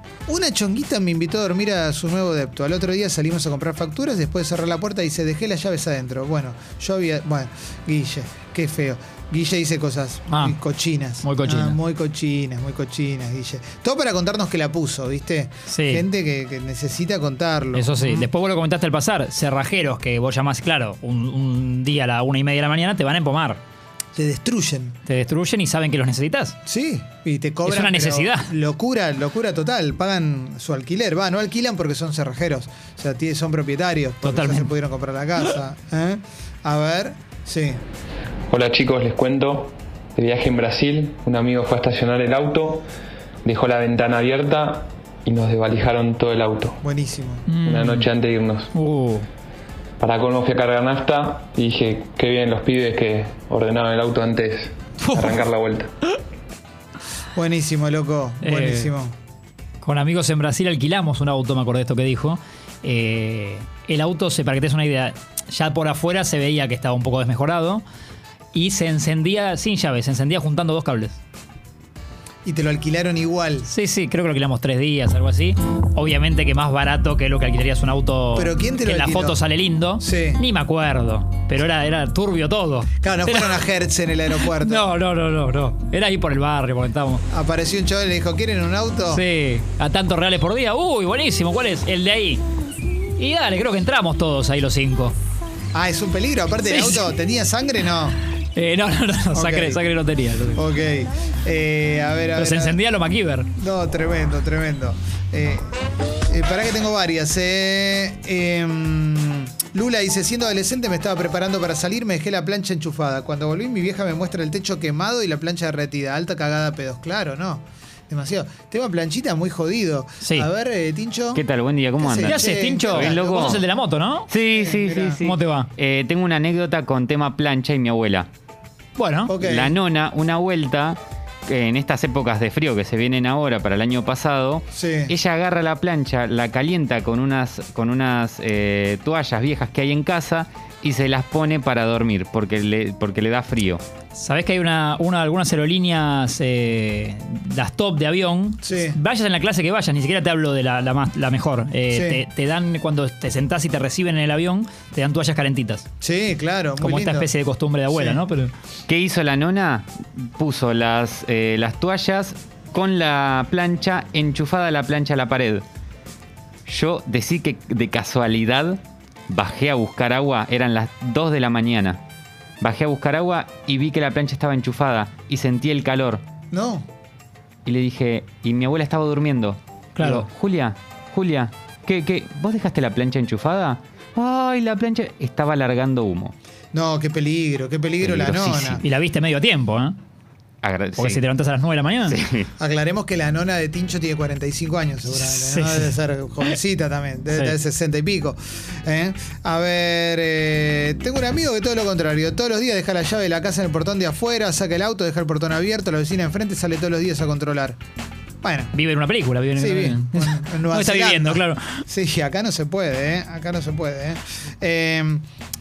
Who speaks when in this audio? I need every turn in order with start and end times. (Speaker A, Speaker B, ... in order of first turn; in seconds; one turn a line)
Speaker A: 0.2-18.3
Speaker B: 10.3-10.6
Speaker B: 11.2-11.8
Speaker B: 15.7-16.0
Speaker B: 17.7-23.6
Speaker A: 24.1-25.0
Speaker B: 25.1-26.6
Speaker A: 26.6-37.8
Speaker B: 27.6-28.5
Speaker B: 34.2-34.7
Speaker C: 38.5-42.9
Speaker C: 43.4-46.8
Speaker A: 46.8-47.5
Speaker B: 47.5-48.1
Speaker C: 47.6-48.7
Speaker B: 48.7-49.3
Speaker C: 50.0-55.9
Speaker B: 55.0-55.4
Speaker A: 57.3-59.1
Speaker B: 58.4-58.9
Speaker B: 59.8-67.8
Speaker B: 68.5-71.2
Speaker A: 72.4-73.7
Speaker B: 73.7-83.5
Speaker A: 78.3-79.4
Speaker A: 80.0-80.4
Speaker A: 83.0-84.9
Speaker B: 84.6-87.2
Speaker A: 87.3-89.2
Speaker B: 89.1-92.4
Speaker B: 93.2-95.1
Speaker A: 95.7-98.2
Speaker B: 96.7-97.0
Speaker B: 98.4-100.7
Speaker A: 99.3-99.8
Speaker A: 100.5-102.8
Speaker B: 102.3-103.5
Speaker A: 103.5-105.7
Speaker A: 106.3-121.4
Speaker B: 120.2-120.5
Speaker D: 121.3-123.6
Speaker A: 122.0-123.6
Speaker B: 122.2-124.3
Speaker D: 124.3-128.3
Speaker A: 124.5-125.2
Speaker B: 125.2-125.7
Speaker B: 129.0-129.3
Speaker A: 129.3-129.7
Speaker D: 129.4-143.8
Speaker A: 134.7-135.1
Speaker B: 144.1-155.8
Speaker A: 148.6-149.0
Speaker A: 151.9-152.2
Speaker A: 156.0-157.3
Speaker B: 156.8-158.5
Speaker A: 157.9-158.2
Speaker D: 158.9-165.6
Speaker D: 166.7-172.0
Speaker D: 172.6-176.2
Speaker A: 176.5-176.9
Speaker D: 177.6-186.3
Speaker B: 180.0-180.3
Speaker A: 186.7-188.8
Speaker D: 188.0-188.8
Speaker B: 188.8-189.9
Speaker D: 190.6-191.2
Speaker B: 191.0-192.2
Speaker D: 192.1-192.5
Speaker A: 192.6-207.8
Speaker B: 195.1-195.9
Speaker A: 208.4-208.7
Speaker B: 208.7-211.8
Speaker A: 209.6-215.2